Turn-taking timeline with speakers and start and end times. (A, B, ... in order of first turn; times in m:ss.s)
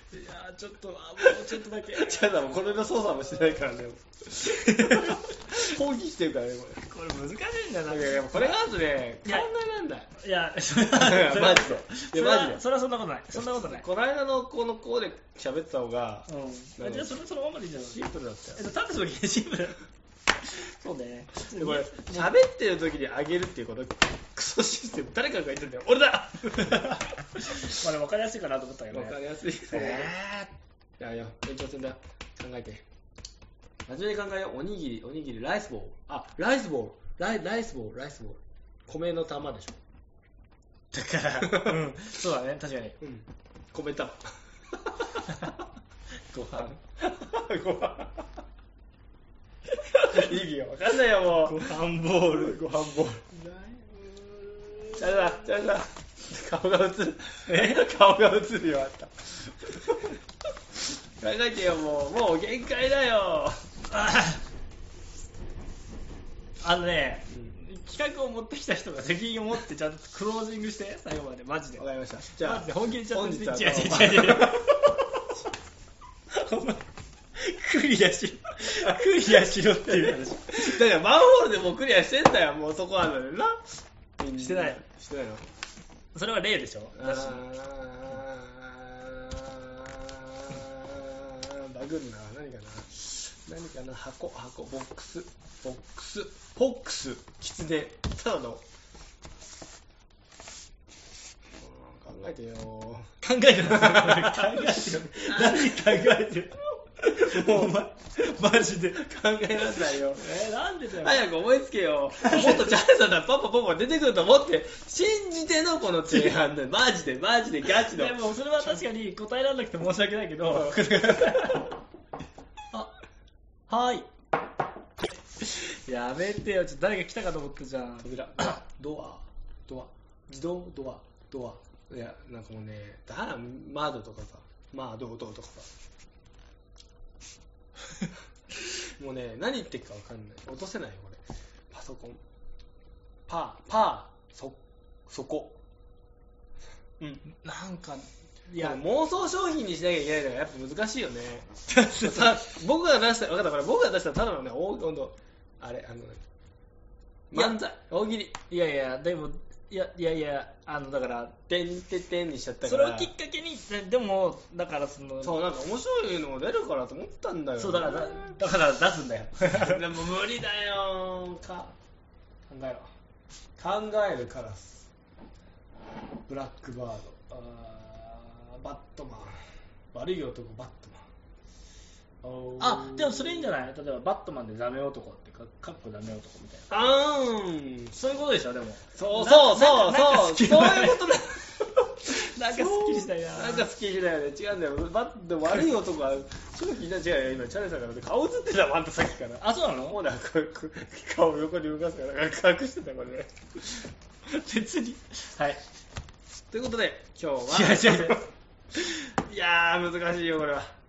0:00.1-0:02.7 A
0:01.9-0:06.8 B
0:04.6-0:05.2 A
0:06.8-0:08.6 A
0:07.9-0:10.1 B
0:10.2-0:13.8 A
0:10.9-0:12.6 B
0:13.3-0:17.1 B
0:16.3-0:18.0 A
0:17.8-0:18.6 B
0:18.6-0:19.8 A
0:20.4-0:22.4 A
0:21.6-0:27.0 B
0:26.6-0:29.2 A
0:28.9-0:30.2 B
0:29.7-0:30.5 A
0:31.0-0:32.8 B
0:33.9-0:39.8 B
0:40.9-0:43.0 A
0:41.4-0:41.8 B
0:43.0-0:44.3 B
0:45.3-0:45.6 A
0:46.3-0:46.8 A
0:47.0-0:48.3 B
0:50.0-0:50.3 A
0:50.0-0:51.7 B
0:51.3-0:52.6 A
0:52.2-0:53.4 B
0:54.6-0:54.9 A
0:54.9-1:00.0 B
0:57.5-0:57.9 A
1:01.2-1:03.6 B
1:03.9-1:04.4 A
1:06.6-1:11.8 A
1:07.3-1:07.6 B
1:11.8-1:14.8 B
1:12.4-1:14.8 A
1:16.3-1:16.8 A
1:17.4-1:20.8 A
1:18.7-1:19.0 B
1:19.9-1:23.6 B
1:24.2-1:25.4 B
1:24.4-1:24.8 A
1:26.1-1:27.4 A
1:27.0-1:38.6 B
1:41.6-1:43.1 B
1:43.2-1:49.0 A
1:43.6-1:46.3 B
1:47.3-1:47.8 B
1:48.6-1:50.2 B
1:50.1-1:51.2 A
1:51.0-1:58.1 B
1:52.2-1:52.8 A
1:56.1-1:56.4 A
1:57.7-2:01.7 A
2:00.5-2:01.6 B
2:03.7-2:04.1 A
2:05.4-2:08.6 A
2:08.0-2:15.7 B
2:18.8-2:22.2 B
2:23.3-2:25.6 B
2:27.3-2:28.8 A
2:28.6-2:36.2 B
2:31.7-2:32.4 A
2:37.3-2:38.4 B
2:38.5-2:41.3 A
2:41.5-2:43.1 B
2:42.6-2:45.4 A
2:45.2-2:48.4 B
2:47.6-2:49.8 A
2:49.4-2:51.7 B
2:52.5-2:52.9 B
2:53.6-2:54.9 B
2:56.3-2:59.4 B
2:59.9-3:01.1 B
3:02.2-3:03.6 B
3:02.6-3:06.7 A
3:06.7-3:08.0 B
3:08.0-3:11.0 A
3:09.0-3:23.9 B
3:12.1-3:13.7 A
3:19.4-3:20.0 A
3:24.3-3:25.6 A
3:26.5-3:28.2 B
3:27.5-3:28.2 A
3:28.8-3:30.8 B